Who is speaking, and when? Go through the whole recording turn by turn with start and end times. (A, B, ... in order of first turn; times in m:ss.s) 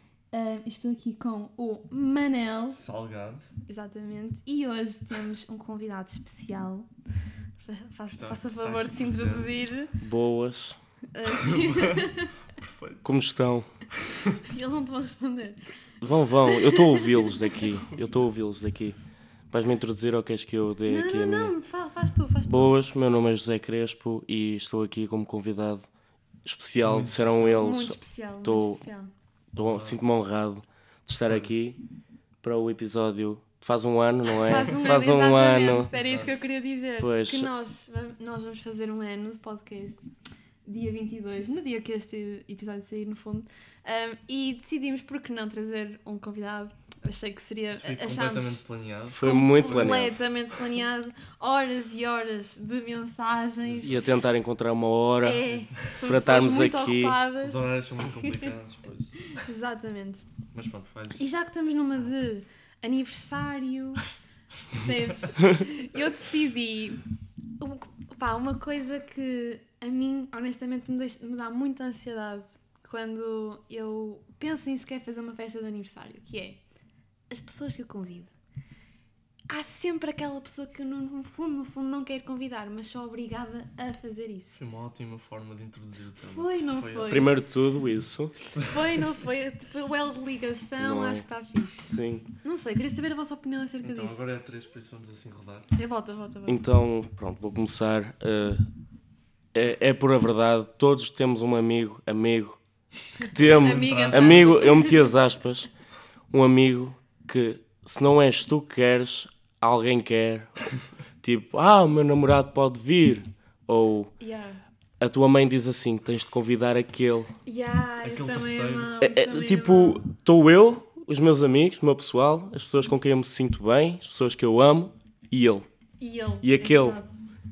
0:00.3-0:02.8 A
0:02.7-0:03.5 B
0:03.7-0:06.9 A
0:07.6-0:09.9 A
0:08.1-0:09.6 B
0:10.0-0:10.8 C
0:11.1-0:12.3 A
0:11.4-0:13.0 B
0:13.0-0:13.6 C
0:14.4-0:15.6 A
0:16.0-0:19.0 C
0:16.4-0:17.4 A
0:19.5-0:21.5 C
0:20.8-0:22.8 A
0:22.4-0:25.9 C
0:26.4-0:28.8 C
0:26.8-0:27.8 B
0:27.5-0:29.1 A
0:29.5-0:31.8 C
0:29.6-0:30.0 B
0:31.2-0:31.5 B
0:32.4-0:35.9 C
0:34.4-0:40.0 A
0:35.9-0:36.4 B
0:37.0-0:37.5 C
0:40.6-0:48.6 A
0:47.7-0:49.2 B
0:49.1-0:50.1 C
0:49.2-0:54.0 A
0:53.6-0:54.0 B
0:53.8-0:55.4 C
0:55.2-0:57.7 A
0:55.4-0:56.0 B
0:56.0-0:57.2 C
0:57.4-0:59.2 B
0:58.2-0:58.5 A
0:59.3-1:00.3 A
1:00.5-1:01.3 B
1:01.1-1:04.0 A
1:04.7-1:07.0 A
1:07.6-1:16.6 A
1:17.3-1:18.3 A
1:19.5-1:24.6 A
1:24.6-1:27.2 B
1:26.3-1:27.3 A
1:27.1-1:28.3 C
1:28.7-1:34.2 A
1:30.8-1:31.2 C
1:31.8-1:32.2 C
1:33.8-1:35.7 B
1:35.7-1:36.6 A
1:36.5-1:38.6 C
1:39.5-1:42.6 C
1:43.2-1:45.7 C
1:43.2-1:45.1 A
1:43.4-1:44.9 B
1:46.3-1:50.6 C
1:51.2-1:54.1 C
1:54.2-1:54.6 A
1:55.0-1:57.3 C
1:57.4-2:00.0 A
1:58.0-1:58.9 B
1:59.0-2:05.7 C
2:06.0-2:07.1 A
2:06.4-2:07.0 C